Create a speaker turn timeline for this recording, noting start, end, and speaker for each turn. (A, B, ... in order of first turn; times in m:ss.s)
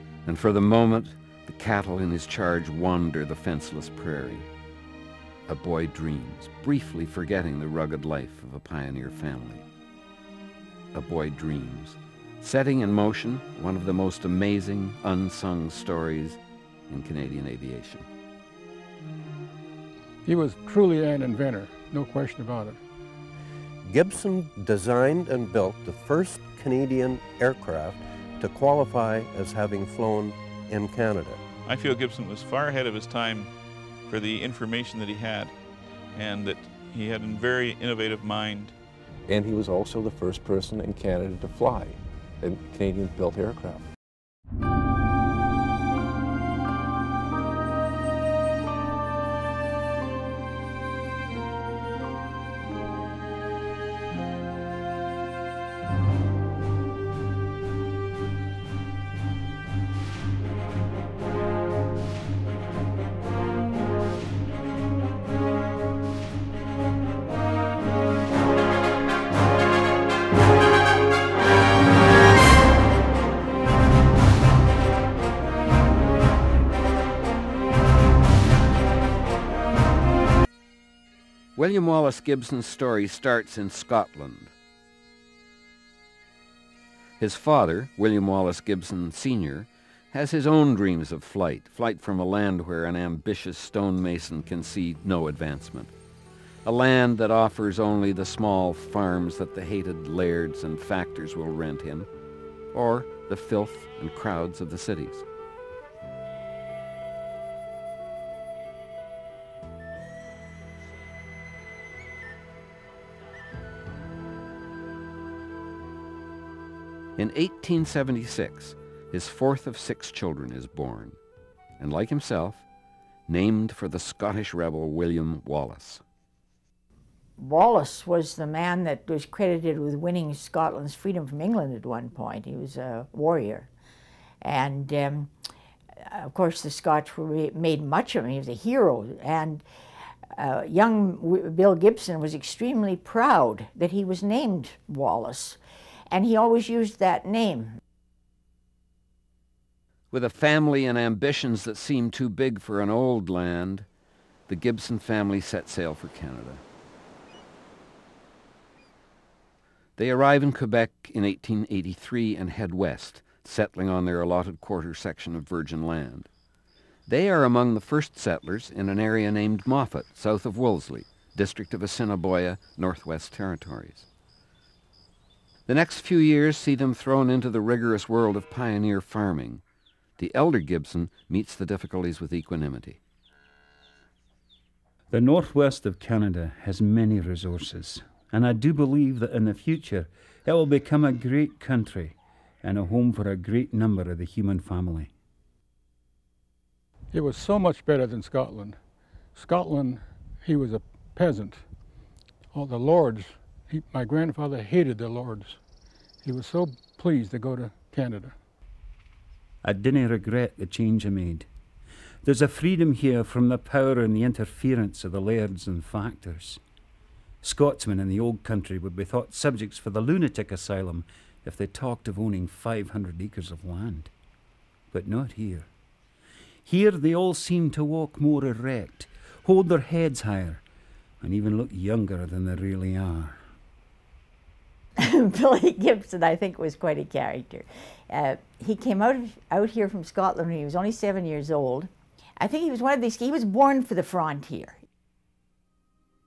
0:00.3-0:04.5 A
0:05.5-0:09.7 A
0:10.9-0:18.1 A
0:20.2-0:22.8 B
0:23.8-0:31.4 C
0:31.6-0:33.5 D
0:34.1-0:35.5 D
0:36.1-0:38.7 D
0:39.3-0:43.9 E
1:21.6-1:24.5 A
1:27.2-1:35.9 A
1:36.6-1:42.1 A
1:42.7-1:45.2 A
1:57.2-2:01.2 A
2:01.8-2:02.6 A
2:03.3-2:06.0 A
2:07.4-2:13.7 F
2:14.4-2:15.3 F
2:16.0-2:19.6 F
2:20.3-2:25.6 F
2:26.1-2:27.8 F
2:30.1-2:33.9 A
2:34.5-2:36.6 A
2:40.0-2:46.3 A
2:47.1-2:54.1 A
2:55.7-2:59.6 A
3:00.2-3:03.0 A
3:05.1-3:15.1 G
3:17.1-3:18.8 B
3:19.3-3:21.6 B
3:22.5-3:25.6 B
3:26.2-3:28.3 B
3:29.6-3:31.5 G
3:32.2-3:36.6 G
3:37.4-3:44.1 G
3:44.9-3:45.7 G
3:46.6-3:50.6 G
3:51.2-3:53.4 G
3:55.0-4:04.8 F